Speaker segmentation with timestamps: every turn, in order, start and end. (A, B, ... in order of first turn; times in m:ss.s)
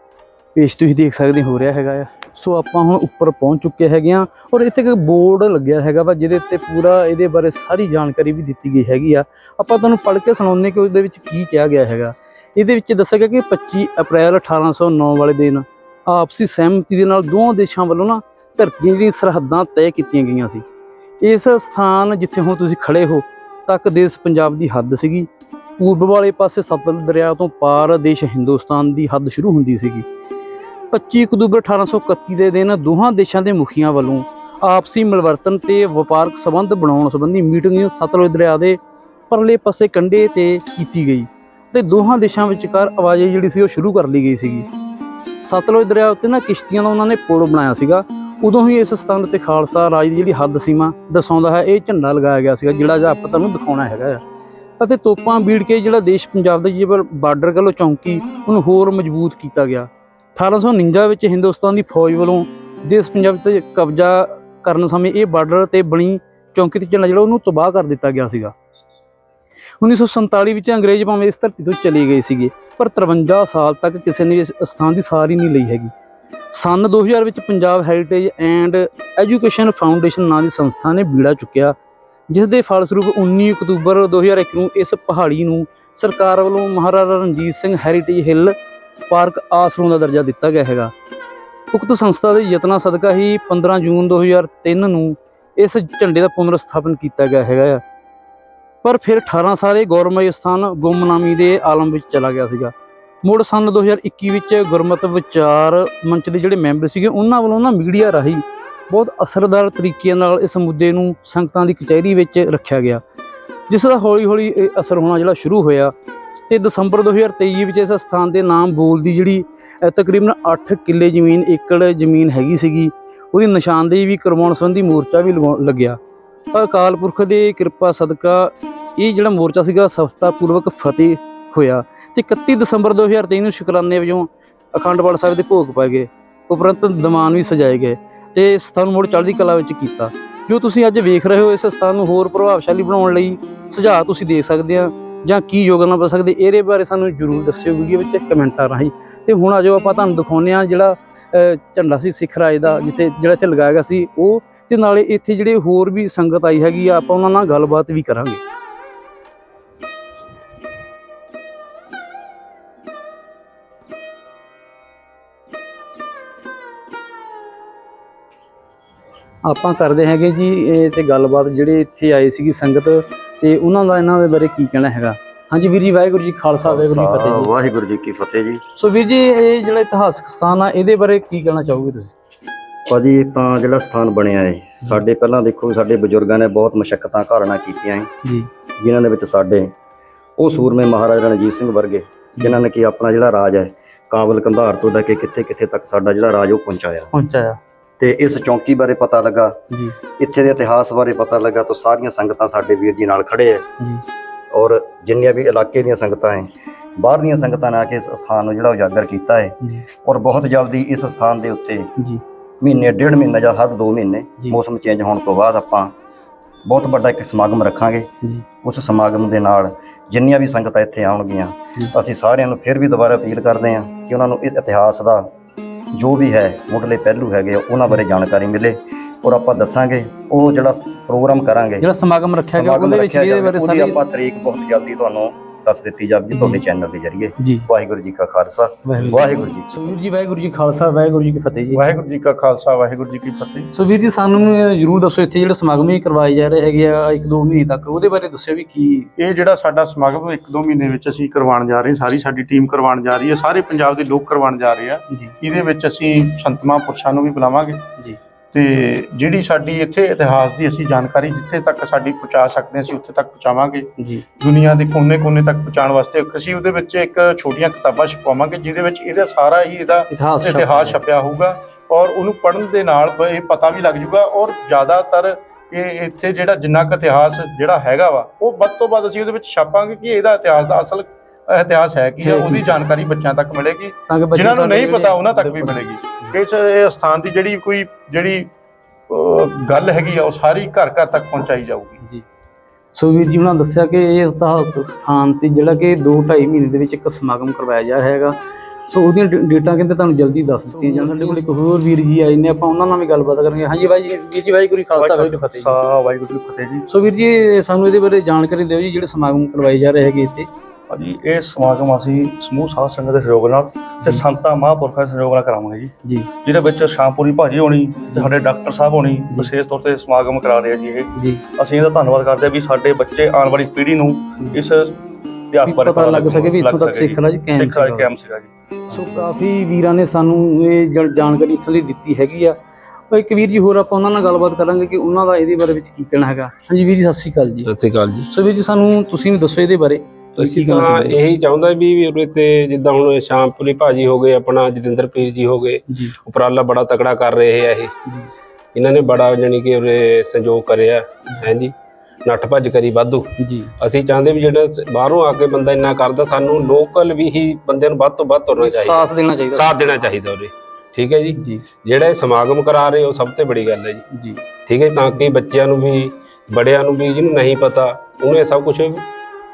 0:00.5-0:20.6 A
0:21.2-0:30.0 A
0:30.9-0:38.8 A
0:39.3-0:44.7 A
0:45.4-0:54.2 A
0:54.8-1:08.5 A
1:09.8-1:15.9 A
1:16.5-1:21.7 A
1:22.3-1:28.5 A
1:29.1-1:30.9 A
1:31.7-1:37.8 A
1:38.8-1:42.7 A
1:43.2-1:53.0 A
1:53.7-1:55.9 A
1:56.5-2:06.0 A
2:06.5-2:38.4 A
2:49.4-2:57.5 A
2:56.6-2:58.6 B
2:58.8-3:02.1 A
3:02.9-3:08.1 B
3:08.8-3:09.7 B
3:10.4-3:17.1 B
3:17.1-3:17.6 A
3:18.0-3:19.6 B
3:20.2-3:23.6 B
3:24.5-3:31.9 B
3:32.6-3:35.9 B
3:36.6-3:38.1 B
3:38.6-3:45.3 B
3:45.9-3:51.9 B
3:51.8-3:54.0 A
3:52.4-3:59.8 B
3:56.3-3:56.6 A
3:57.4-3:57.7 A
3:58.8-4:01.8 A
4:01.7-4:03.7 C
4:03.7-4:09.1 A
4:09.2-4:17.8 C
4:18.5-4:48.5 C
4:30.1-4:31.0 A
4:42.2-4:42.7 A
4:44.1-4:46.4 A
4:49.1-4:52.0 C
4:52.9-4:58.4 A
4:58.9-5:05.7 A
5:05.0-5:06.8 D
5:06.9-5:10.5 A
5:10.9-5:15.9 D
5:16.4-5:28.5 D
5:21.2-5:21.4 A
5:25.6-5:28.1 A
5:28.9-5:32.6 A
5:33.1-5:37.7 A
5:37.6-5:38.3 E
5:38.3-5:41.2 A
5:40.4-5:47.9 E
5:45.9-5:46.1 A
5:48.7-5:51.7 E
5:52.2-6:04.0 E
5:53.4-5:53.7 A
5:58.6-5:59.9 A
6:01.4-6:01.6 A
6:04.1-6:04.4 A
6:04.6-6:09.0 E